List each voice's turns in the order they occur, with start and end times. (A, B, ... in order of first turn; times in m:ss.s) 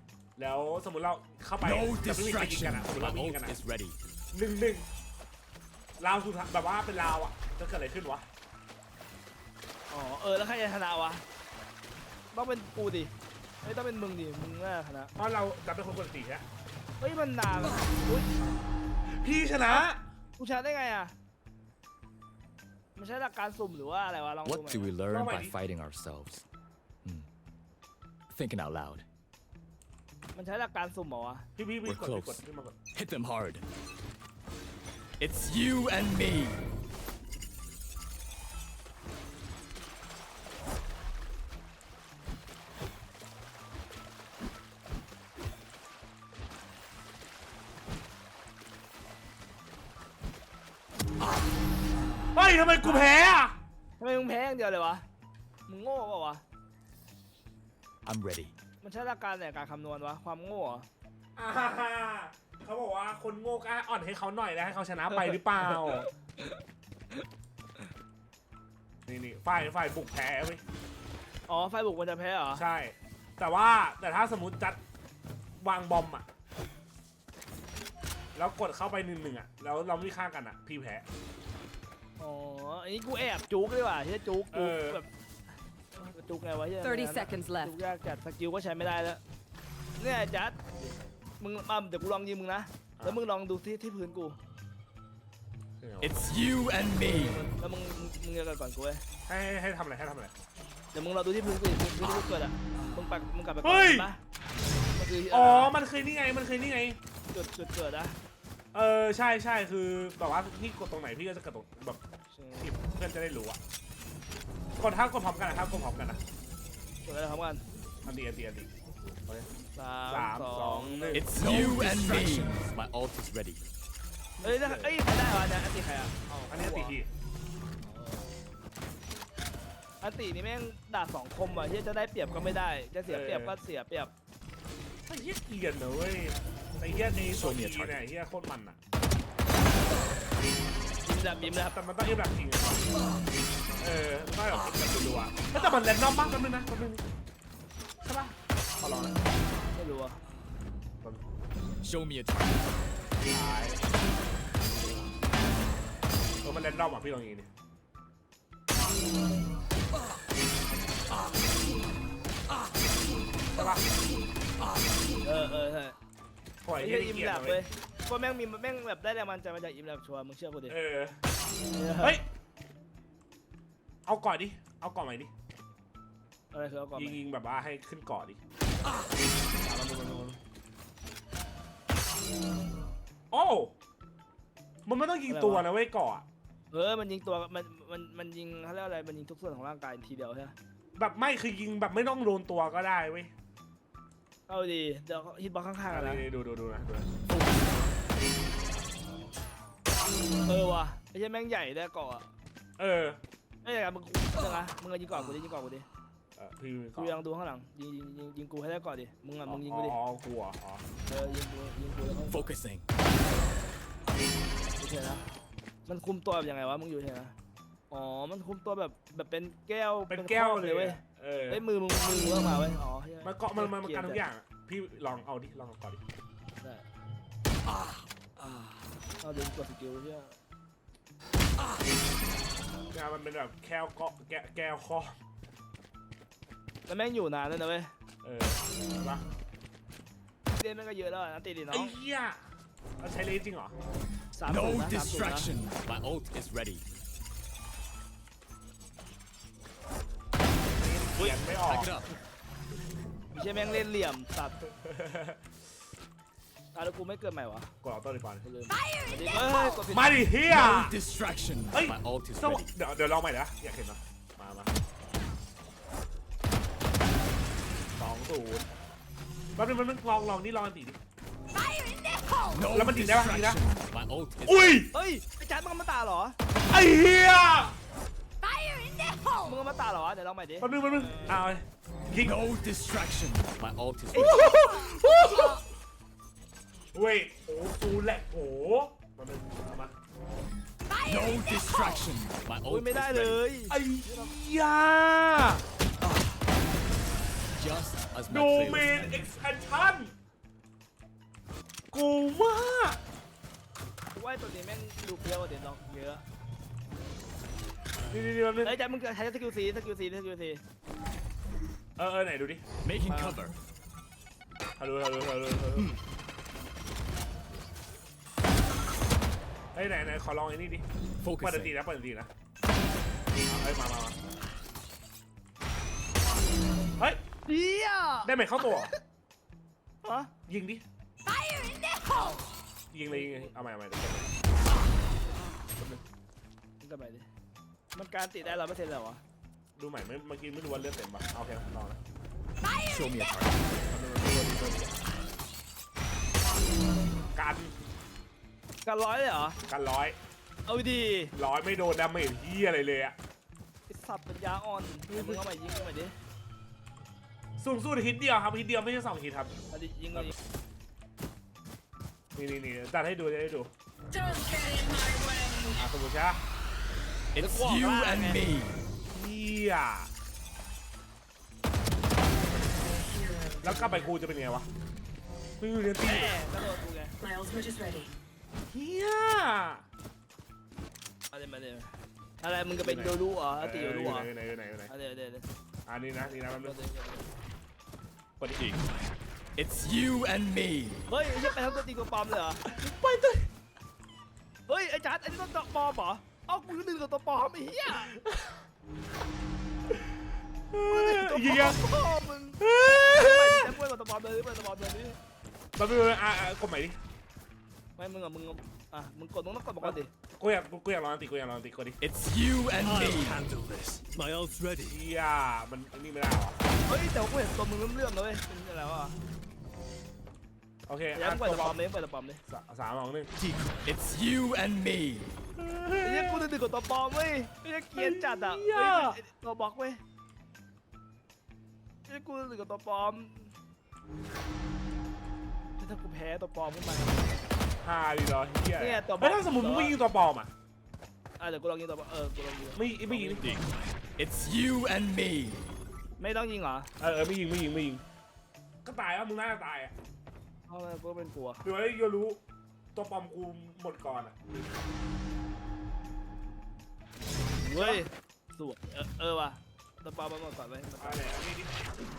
0:00.4-0:03.5 A
0:01.6-0:04.0 B
0:04.3-0:04.9 A
0:06.0-0:08.3 A
0:09.9-0:11.2 C
0:12.3-0:13.1 C
0:13.6-0:15.1 C
0:15.2-0:16.4 A
0:17.0-0:18.3 C
0:19.1-0:20.0 A
0:20.4-0:21.1 C
0:23.0-0:24.9 C
0:24.4-0:26.4 B
0:25.1-0:25.5 A
0:28.3-0:29.0 B
0:30.3-0:31.5 C
0:31.6-0:32.8 A
0:31.8-0:33.6 B
0:35.2-0:36.6 B
0:52.3-0:53.6 A
0:54.0-0:55.0 C
0:55.7-0:56.4 C
0:58.0-0:58.5 B
0:58.8-1:00.9 C
1:01.4-1:06.1 A
1:05.3-1:06.6 C
1:09.1-1:10.6 A
1:11.5-1:12.6 C
1:12.5-1:14.8 A
1:15.6-1:16.2 A
1:18.3-1:21.0 A
1:22.2-1:25.1 C
1:24.5-1:25.0 A
1:25.9-1:29.2 C
1:26.8-1:27.7 D
1:27.2-1:27.6 B
1:30.0-1:34.4 C
1:35.8-1:36.2 A
1:36.0-1:37.4 B
1:37.1-1:39.0 C
1:39.2-1:40.3 A
1:40.9-1:44.2 C
1:43.6-1:44.1 A
1:45.0-1:45.7 C
1:45.3-1:47.0 A
1:47.3-1:48.2 C
1:48.7-1:52.0 A
1:52.3-1:52.7 C
1:52.6-1:53.6 A
1:54.8-1:56.2 A
1:57.0-1:57.6 C
1:58.0-1:58.7 A
1:59.8-2:01.3 C
2:00.1-2:01.7 A
2:01.1-2:03.6 B
2:04.4-2:05.0 A
2:04.4-2:06.9 C
2:06.5-2:07.1 A
2:07.8-2:08.3 C
2:10.0-2:14.1 C
2:13.0-2:13.6 A
2:15.1-2:18.8 A
2:16.9-2:18.0 B
2:21.0-2:21.7 C
2:21.5-2:22.9 A
2:23.8-2:27.0 A
2:28.0-2:29.2 A
2:29.7-2:30.2 C
2:31.8-2:32.9 B
2:33.3-2:33.8 A
2:34.8-2:35.0 A
2:36.4-2:37.5 A
2:43.5-2:43.8 A
2:45.2-2:46.0 C
2:46.6-2:47.7 A
2:46.8-2:50.8 C
2:50.7-2:51.2 A
2:51.7-2:52.2 C
2:54.0-2:55.3 A
2:56.5-2:57.2 C
2:57.0-2:58.4 A
2:59.6-3:00.4 A
3:03.3-3:03.7 A
3:04.8-3:06.2 A
3:05.3-3:05.6 C
3:06.7-3:10.5 C
3:11.0-3:13.3 A
3:14.5-3:16.2 C
3:15.9-3:17.1 A
3:17.3-3:18.0 B
3:20.4-3:22.3 C
3:22.8-3:23.2 A
3:23.6-3:25.9 C
3:26.4-3:27.1 A
3:27.0-3:30.0 C
3:29.4-3:30.8 A
3:31.1-3:32.5 C
3:32.3-3:32.9 B
3:34.8-3:35.2 C
3:35.8-3:37.3 C
3:37.9-3:44.2 C
3:40.1-3:41.6 A
3:43.2-3:46.0 A
3:49.2-3:50.3 C
3:52.9-3:55.2 A
3:56.9-3:57.9 C
3:58.2-3:59.2 A
4:00.5-4:01.9 C
4:01.7-4:02.4 A
4:03.0-4:03.8 A
4:04.3-4:05.5 C
4:04.4-4:06.8 B
4:10.7-4:11.9 A
4:11.5-4:12.2 B
4:13.3-4:14.6 C
4:14.7-4:15.4 A
4:16.7-4:17.7 C
4:17.8-4:18.4 A
4:18.4-4:20.2 C
4:19.9-4:21.0 A
4:20.5-4:22.7 B
4:21.7-4:24.7 A
4:28.0-4:28.7 A
4:29.6-4:31.0 A
4:31.5-4:32.6 D
4:32.5-4:34.8 B
4:32.7-4:33.6 A
4:34.4-4:34.9 A
4:34.9-4:36.4 C
4:36.7-4:37.8 A
4:38.4-4:39.6 D
4:39.4-4:41.4 C
4:40.6-4:42.4 A
4:42.2-4:44.5 B
4:44.1-4:45.6 A
4:46.9-4:50.0 A
4:51.0-4:53.4 B
4:52.7-4:54.3 C
4:53.7-4:55.6 A
4:56.0-4:56.3 B
4:57.5-4:59.3 B
4:58.3-5:00.1 A
5:01.9-5:03.0 A
5:04.1-5:06.2 C
5:08.1-5:08.7 A
5:08.6-5:10.6 C
5:12.0-5:12.6 A
5:12.8-5:13.6 B
5:13.1-5:13.4 C
5:14.8-5:15.9 A
5:19.7-5:20.8 A
5:21.2-5:21.8 B
5:21.4-5:22.3 A
5:23.4-5:24.2 A
5:27.5-5:29.0 C
5:28.2-5:28.9 A
5:30.0-5:30.3 C
5:30.5-5:30.8 A
5:32.9-5:34.3 A
5:33.1-5:33.5 C
5:35.8-5:36.0 A
5:36.8-5:37.3 C
5:37.9-5:39.2 C
5:39.8-5:42.0 A
5:42.6-5:43.9 B
5:43.9-5:45.4 A
5:47.3-5:47.7 A
5:48.8-5:49.6 C
5:49.7-5:50.2 A
5:50.6-5:51.3 C
5:51.3-5:53.2 A
5:53.9-5:56.1 C
5:55.1-5:55.4 A
5:57.6-5:59.5 A
5:59.7-6:00.3 C
6:02.3-6:03.7 A
6:04.1-6:05.8 D
6:05.8-6:06.4 A
6:07.3-6:08.8 B
6:07.4-6:08.5 C
6:09.1-6:10.1 A
6:12.3-6:14.1 D
6:13.6-6:14.7 A
6:15.6-6:16.4 A
6:16.0-6:17.2 C
6:17.2-6:18.2 D
6:18.7-6:19.8 A
6:21.3-6:24.3 C
6:22.8-6:24.9 A
6:24.9-6:25.5 C
6:25.8-6:26.8 A
6:26.6-6:27.3 C
6:28.4-6:28.7 A
6:29.5-6:31.0 B
6:31.1-6:32.6 C
6:32.6-6:33.5 A
6:34.7-6:38.2 C
6:38.1-6:38.6 A
6:40.7-6:41.8 A
6:40.9-6:45.2 C
6:42.6-6:43.7 A
6:45.8-6:47.0 A
6:48.0-6:50.1 C
6:49.8-6:52.0 A
6:52.0-6:53.4 B
6:52.8-6:55.0 E
6:54.8-6:56.6 A
6:56.8-6:59.2 C
7:00.9-7:01.8 A
7:01.1-7:02.4 C
7:02.5-7:03.3 A
7:03.4-7:05.3 B
7:05.6-7:06.5 A
7:06.0-7:10.0 C
7:08.0-7:09.2 A
7:12.1-7:13.5 C
7:15.8-7:17.5 C
7:17.8-7:20.5 A
7:18.8-7:20.0 C
7:21.4-7:22.8 C
7:22.7-7:23.5 A
7:23.1-7:23.6 B
7:24.2-7:25.6 B
7:26.2-7:26.9 C
7:27.0-7:28.0 A
7:28.8-7:29.9 A
7:30.7-7:31.6 C
7:31.6-7:32.4 A
7:32.9-7:34.4 A
7:37.6-7:41.4 C
7:37.7-7:38.0 A
7:41.0-7:41.8 A